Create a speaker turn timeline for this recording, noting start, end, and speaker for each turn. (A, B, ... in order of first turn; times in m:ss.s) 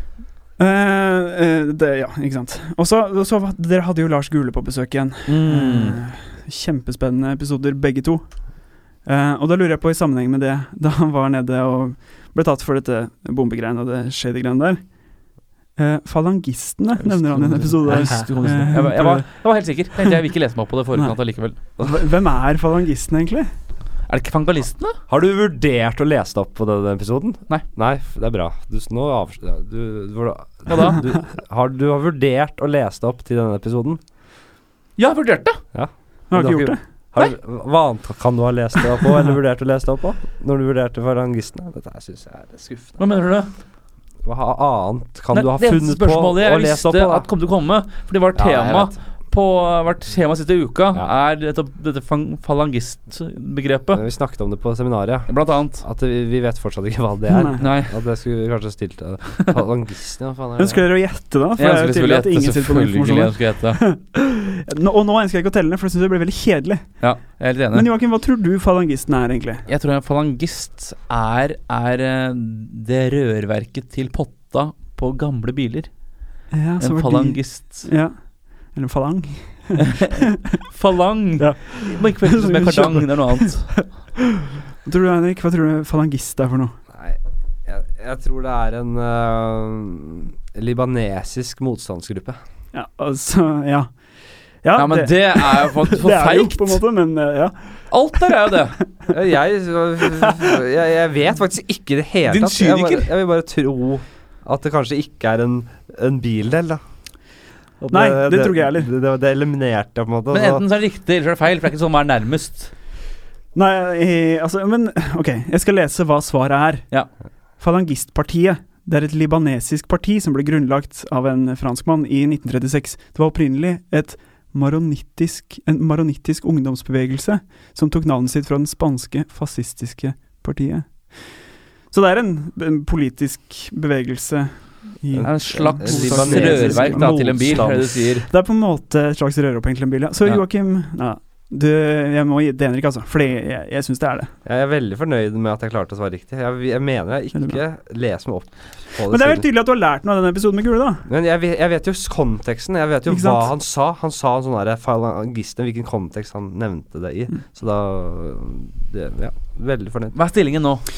0:00.6-0:14.9 A
0:05.3-0:06.0 B
0:15.8-0:19.3 A
0:17.0-0:21.6 B
0:17.9-0:18.3 C
0:20.9-0:23.5 A
0:24.1-0:25.0 B
0:25.1-0:34.0 C
0:30.7-0:31.0 B
0:35.0-0:35.6 B
0:35.7-0:43.0 C
0:36.3-0:36.8 A
0:43.0-0:43.5 B
0:44.2-0:47.3 C
0:45.3-0:54.0 B
0:48.4-0:49.0 C
0:53.9-1:00.8 C
0:55.3-0:55.8 B
0:57.3-0:57.6 A
0:57.6-0:57.9 B
1:00.6-1:07.1 A
1:01.6-1:03.8 B
1:07.0-1:07.9 B
1:07.7-1:09.6 A
1:09.7-1:15.9 B
1:16.5-1:20.6 A
1:16.8-1:17.9 B
1:19.8-1:23.8 B
1:21.4-1:24.2 A
1:24.8-1:26.8 A
1:26.9-1:32.4 C
1:32.7-1:33.9 A
1:34.6-1:38.8 A
1:34.8-1:36.8 B
1:37.9-1:38.8 B
1:39.1-1:46.8 C
1:40.2-1:40.5 A
1:42.2-1:43.1 B
1:47.8-1:50.6 C
1:47.9-1:48.9 A
1:50.3-1:52.7 B
1:53.6-1:56.9 A
1:57.6-2:11.3 A
2:11.9-2:24.3 A
2:15.1-2:18.1 C
2:15.2-2:18.3 B
2:24.4-2:29.5 C
2:29.1-2:31.0 A
2:31.1-2:40.2 C
2:33.1-2:33.5 A
2:40.1-2:40.8 B